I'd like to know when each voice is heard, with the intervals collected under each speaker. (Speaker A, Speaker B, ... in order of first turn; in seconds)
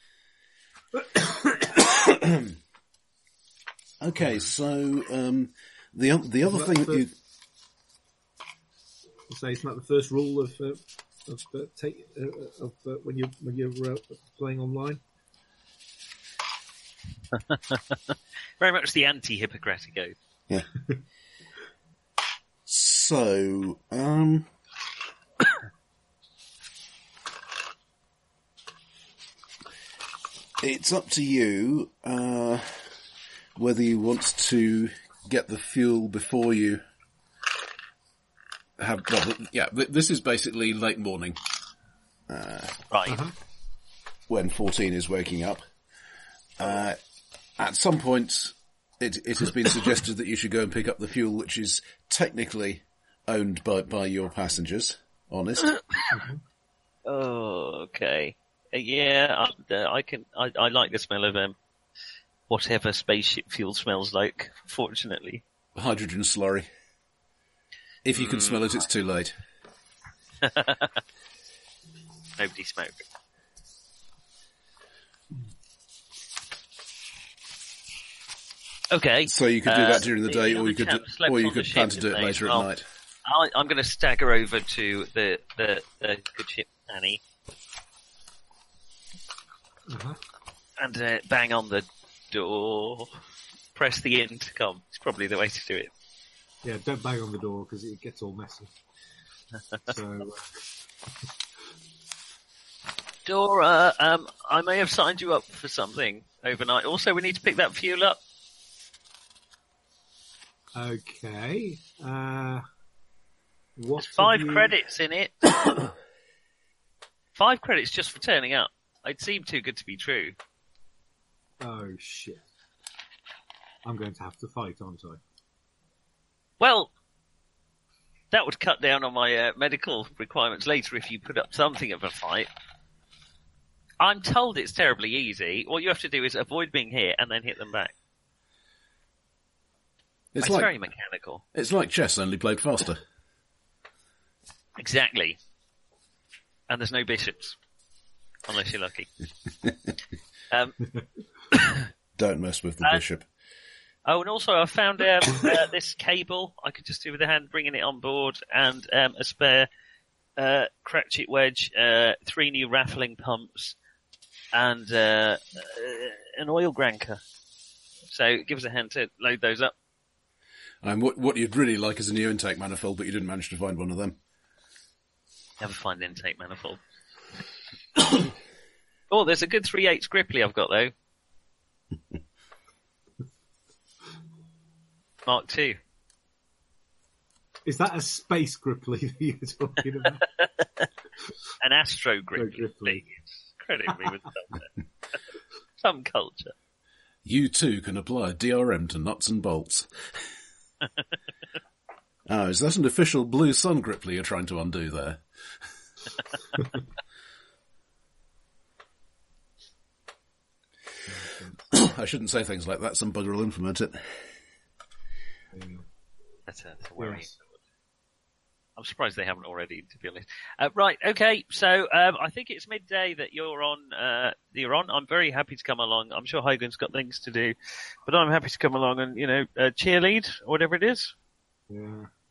Speaker A: 0.9-1.9, 6.5-7.0, 9.3-15.0, 43.1-43.3, 89.9-90.2, 96.6-98.7, 99.9-100.4, 110.7-112.6, 113.8-114.7, 121.6-122.4, 123.8-125.2, 187.6-190.3, 192.3-193.0, 211.1-211.6, 215.5-215.8, 217.0-217.3, 231.7-232.1
Speaker B: 1.9-2.5, 4.0-7.1, 22.6-24.5, 30.6-32.8, 33.5-36.8, 38.8-41.4, 42.3-42.8, 44.3-45.6, 46.6-47.0, 47.6-55.7, 65.7-66.7, 68.0-69.3, 79.2-82.8, 140.3-140.7, 141.5-143.0, 152.2-153.2, 170.8-174.2, 197.2-199.9, 202.3-205.2, 211.7-214.1
Speaker C: 17.5-20.1, 42.9-43.2, 57.0-61.5, 62.5-65.4, 68.1-68.7, 70.4-71.0, 72.4-73.0, 78.9-82.7, 83.2-87.2, 90.8-93.2, 93.7-95.9, 103.2-108.2, 114.0-115.5, 117.3-120.3, 126.6-126.9, 128.3-132.5, 134.0-137.9, 140.4-141.4, 144.8-145.4, 146.7-147.6, 148.5-149.1, 150.5-150.8, 154.1-159.7, 160.4-163.8, 164.5-167.2, 168.1-169.7, 175.6-176.8, 179.1-180.9, 185.2-185.8, 190.4-190.9, 191.6-194.7, 195.8-196.5, 216.5-217.4, 218.8-231.1